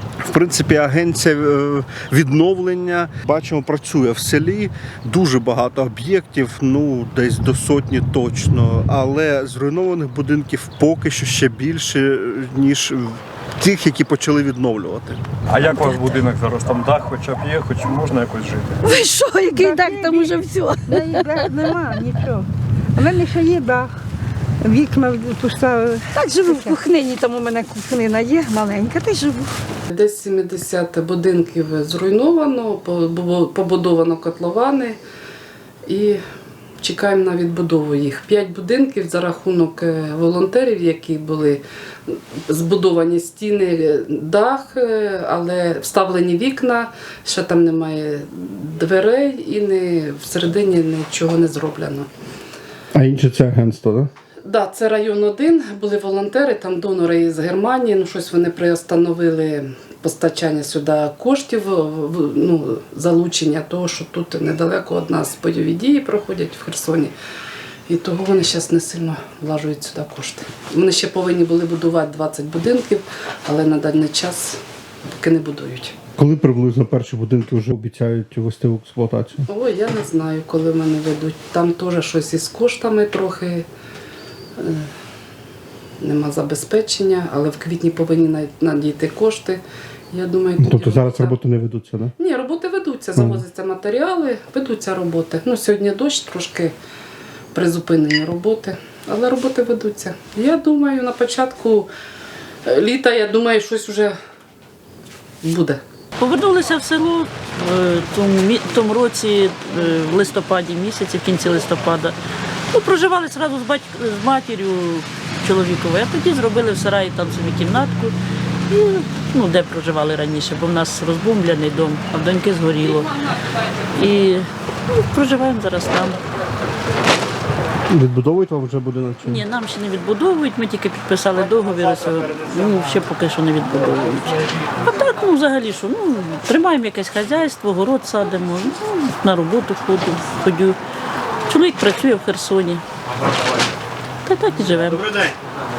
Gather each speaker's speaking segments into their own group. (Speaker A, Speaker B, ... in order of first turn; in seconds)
Speaker A: 0.2-15.2, 52.9-54.1, 76.2-79.5, 90.6-92.1, 93.2-93.4, 127.9-129.4
Speaker B: 15.5-18.8
Speaker C: 18.8-21.3, 26.1-29.5
Speaker D: 19.5-23.9, 24.6-26.7
Speaker E: 29.9-35.0, 35.9-36.2, 36.8-52.1, 54.5-67.1, 67.9-75.9, 79.5-83.7, 84.6-84.9, 86.0-91.4, 92.2-96.7, 97.5-101.9, 102.6-104.2, 105.4-105.8
Speaker F: 106.2-112.1, 112.7-118.1, 118.7-123.3, 123.9-126.2, 129.2-140.8, 141.5-142.8, 144.2-145.3